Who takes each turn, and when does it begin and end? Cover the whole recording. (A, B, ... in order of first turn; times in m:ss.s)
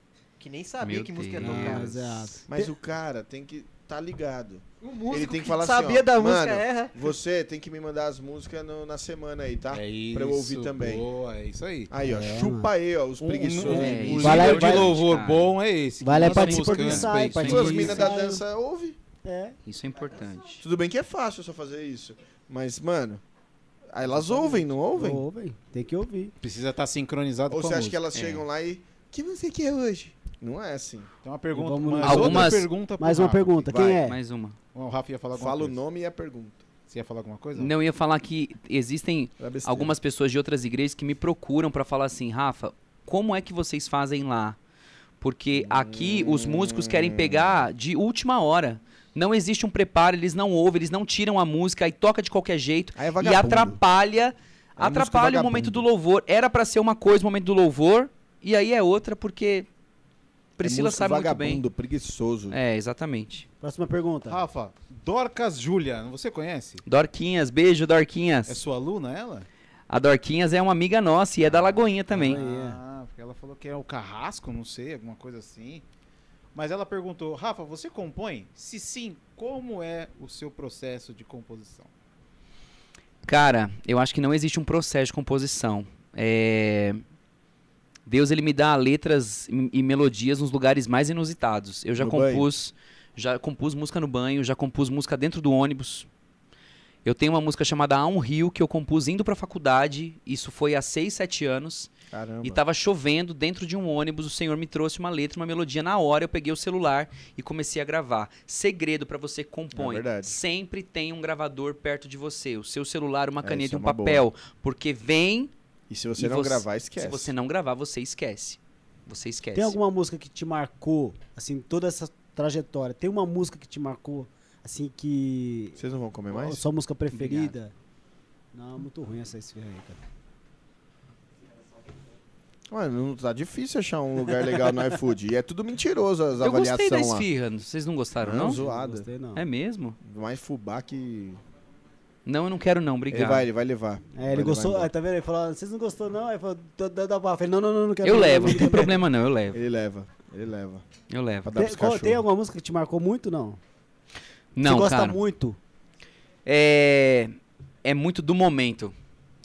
0:00.4-0:02.3 A
0:00.8-0:01.9 B
0:01.4-0:02.7 C
0:02.5-0:11.1 D
0:04.8-0:07.1 A
0:09.7-0:11.9 E
0:11.9-0:14.9 D
0:12.0-0:12.7 C
0:13.2-0:18.0 E
0:13.4-0:15.5 B
0:13.6-0:14.9 C
0:16.0-0:18.4 C
0:16.2-0:18.1 B
0:17.4-0:19.0 D
0:19.2-0:19.6 C
0:19.6-0:20.6 B
0:20.6-0:23.2 D
0:23.9-0:25.2 D
0:24.0-0:26.3 C
0:26.4-0:28.0 E
0:27.5-0:31.1 D
0:28.1-0:28.4 B
0:31.2-0:33.7 E
0:31.5-0:34.2 C
0:32.0-0:32.7 B
0:32.2-0:32.5 D
0:33.7-0:34.0 D
0:34.0-0:34.6 B
0:34.7-0:35.8 E
0:35.3-0:36.6 D
0:36.9-0:37.8 E
0:37.6-0:44.6 B
0:39.4-0:40.0 D
0:45.2-0:59.7 B
0:45.5-0:47.6 D
0:52.9-0:53.8 D
0:54.8-0:55.8 D
1:00.6-1:01.6 B
1:00.6-1:02.6 D
1:02.5-1:03.4 B
1:03.6-1:04.4 C
1:04.2-1:06.8 E
1:06.8-1:08.6 B
1:08.4-1:09.5 E
1:09.9-1:12.4 B
1:12.1-1:15.8 E
1:12.2-1:12.8 C
1:16.5-1:21.9 E
1:23.2-1:27.0 B
1:28.0-1:36.1 B
1:32.0-1:32.5 D
1:37.0-1:41.9 B
1:42.1-1:42.6 D
1:42.4-1:55.5 B
1:49.7-1:50.4 D
1:53.4-1:54.2 D
1:55.9-1:57.3 D
1:56.2-1:59.8 B
1:59.5-2:05.8 C
2:05.8-2:06.6 D
2:06.3-2:07.7 C
2:07.1-2:07.5 B
2:08.5-2:10.0 C
2:12.7-2:17.3 D
2:16.4-2:18.6 B
2:18.2-2:19.1 D
2:18.4-2:19.4 C
2:19.3-2:20.0 B
2:20.0-2:21.4 D
2:22.2-2:23.5 B
2:23.1-2:24.9 D
2:24.1-2:28.9 C
2:28.0-2:29.6 B
2:29.5-2:30.8 D
2:31.1-2:31.5 B
2:31.4-2:32.2 D
2:31.5-2:33.6 C
2:34.6-2:35.2 B
2:34.6-2:35.6 C
2:36.4-2:38.9 B